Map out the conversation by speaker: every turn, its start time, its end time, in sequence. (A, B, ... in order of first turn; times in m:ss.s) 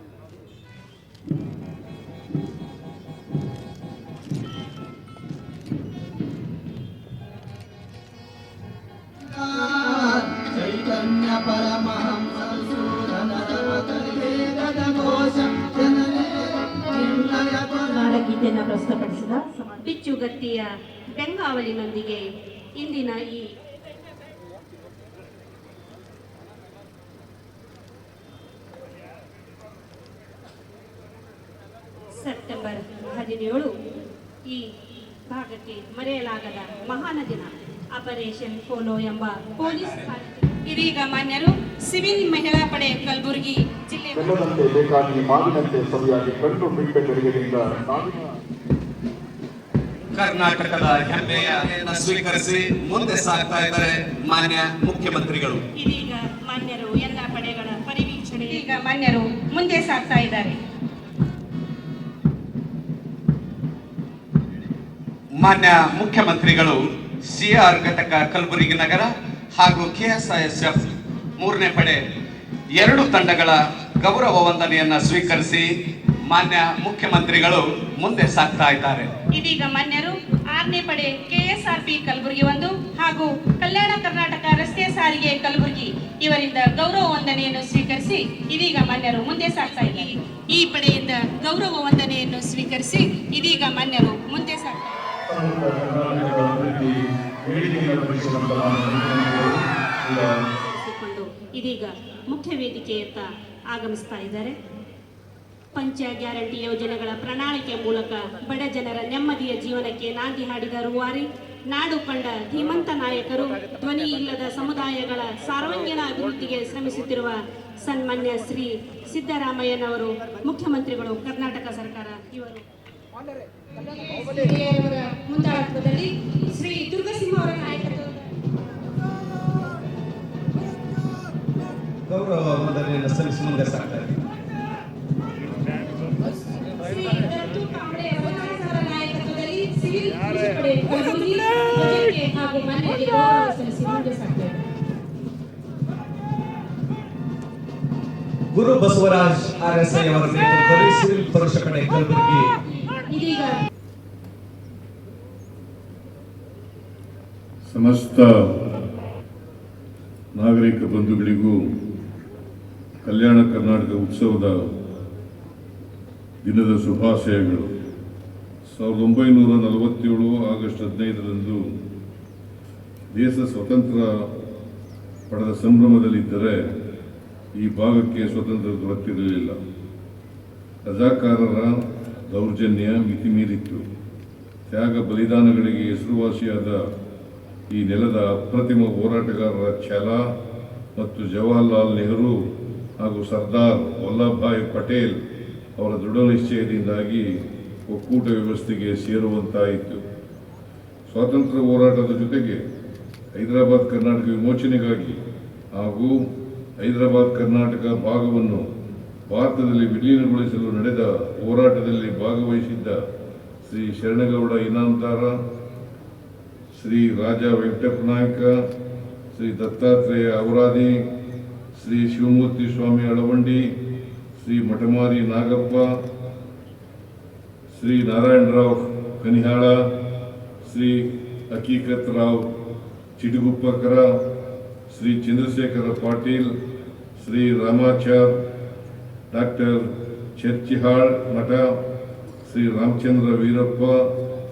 0:17.0-0:19.7 A
0:18.0-0:22.2 B
0:22.8-0:23.4 B
0:32.2-0:33.7 B
0:35.3-0:44.3 B
0:44.2-0:48.3 C
0:50.2-0:55.6 D
0:51.3-0:51.9 A
0:55.8-1:00.6 B
1:05.4-1:06.8 D
1:07.3-1:10.9 D
1:11.4-1:12.0 D
1:12.8-1:15.6 D
1:14.0-1:15.6 A
1:16.3-1:19.1 D
1:16.4-1:18.9 A
1:19.3-1:35.0 B
1:35.3-1:40.4 C
1:40.7-1:44.6 B
1:45.8-1:57.3 B
1:57.9-2:02.6 B
2:04.1-2:08.1 B
2:12.1-2:14.1 D
2:12.2-2:14.0 A
2:16.8-2:24.6 B
2:28.6-2:32.4 A
2:30.0-2:30.5 D
2:31.8-2:32.4 D
2:33.1-2:33.5 B
2:37.7-2:38.3 E
2:40.3-2:41.6 E
2:43.0-2:44.7 E
2:46.4-2:47.7 E
2:48.7-2:51.6 E
2:53.1-2:54.3 E
2:55.3-2:56.6 E
2:57.6-2:59.6 E
3:00.9-3:01.8 E
3:02.3-3:03.8 E
3:04.7-3:06.8 E
3:07.7-3:10.2 E
3:11.0-3:12.4 E
3:13.0-3:15.2 E
3:15.8-3:17.3 E
3:17.9-3:20.0 E
3:21.1-3:22.6 E
3:23.4-3:25.2 E
3:25.8-3:26.2 E
3:26.8-3:28.6 E
3:29.3-3:33.0 E
3:33.6-3:35.3 E
3:36.7-3:38.6 E
3:39.3-3:41.0 E
3:41.8-3:43.6 E
3:44.4-3:45.9 E
3:47.7-3:49.8 E
3:50.6-3:52.5 E
3:53.2-3:54.1 E
3:54.9-3:56.5 E
3:57.2-3:58.4 E
3:59.3-4:01.7 E
4:02.4-4:04.0 E